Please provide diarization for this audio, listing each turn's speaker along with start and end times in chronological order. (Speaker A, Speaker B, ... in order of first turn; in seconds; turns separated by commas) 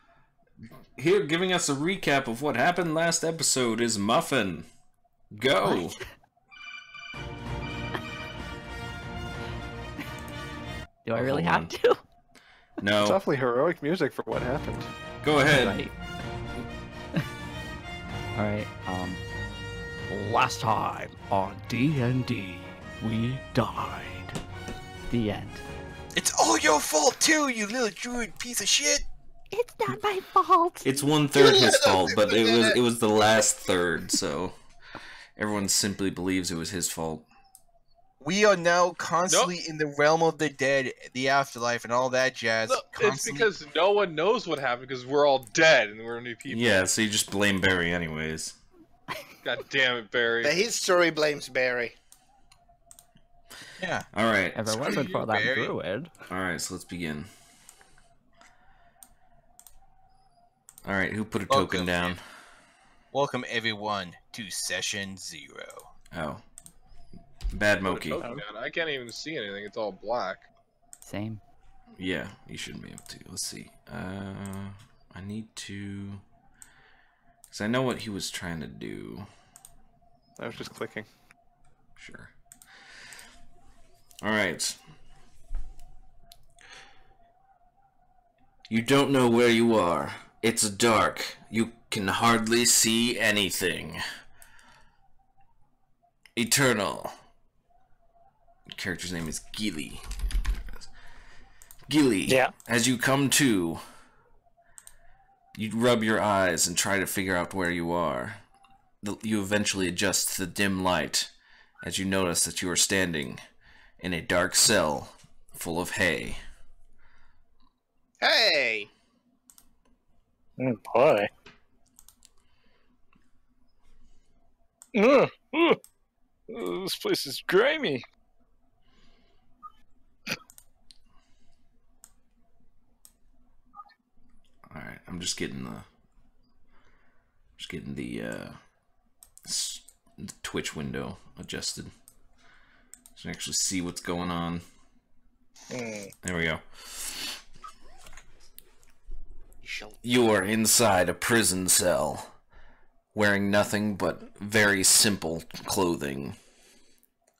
Speaker A: 0.9-4.7, Speaker A: 5.3-6.0, Speaker B: 11.0-12.0, Speaker A: 11.1-11.7, Speaker A: 12.8-13.2, Speaker C: 13.0-14.9, Speaker A: 15.2-15.8, Speaker B: 15.5-15.9, Speaker B: 18.4-19.2, Speaker B: 20.1-24.4, Speaker B: 25.1-25.6, Speaker D: 26.1-29.0, Speaker B: 29.5-31.1, Speaker A: 30.8-34.5, Speaker E: 31.4-32.8, Speaker A: 35.4-37.3, Speaker D: 38.2-43.5, Speaker F: 42.7-46.8, Speaker A: 46.5-48.6, Speaker F: 49.4-50.5, Speaker E: 50.4-52.0, Speaker D: 53.8-54.1, Speaker A: 54.1-54.9, Speaker B: 54.5-56.2, Speaker D: 54.8-55.7, Speaker A: 56.3-57.3, Speaker A: 60.8-62.2, Speaker D: 61.5-62.1, Speaker D: 63.1-65.9, Speaker A: 66.1-66.4, Speaker A: 67.5-68.3, Speaker F: 67.8-70.5, Speaker B: 71.0-71.4, Speaker A: 72.0-76.2, Speaker A: 77.5-79.3, Speaker C: 80.4-81.1, Speaker A: 82.0-82.3, Speaker A: 84.2-84.8, Speaker A: 88.7-94.0, Speaker A: 96.3-97.1, Speaker A: 98.7-100.8, Speaker A: 101.9-103.8, Speaker G: 102.3-102.5, Speaker A: 105.5-108.4, Speaker A: 109.0-111.3, Speaker A: 111.8-113.4, Speaker A: 114.0-116.4, Speaker E: 118.2-118.9, Speaker G: 120.6-121.3, Speaker G: 124.9-125.8, Speaker G: 126.5-128.0, Speaker A: 134.7-135.8, Speaker A: 137.6-138.6, Speaker A: 139.4-141.9, Speaker A: 143.2-144.6, Speaker G: 145.7-146.1, Speaker A: 146.2-147.3, Speaker E: 149.6-150.0, Speaker A: 150.0-152.3, Speaker A: 153.1-156.4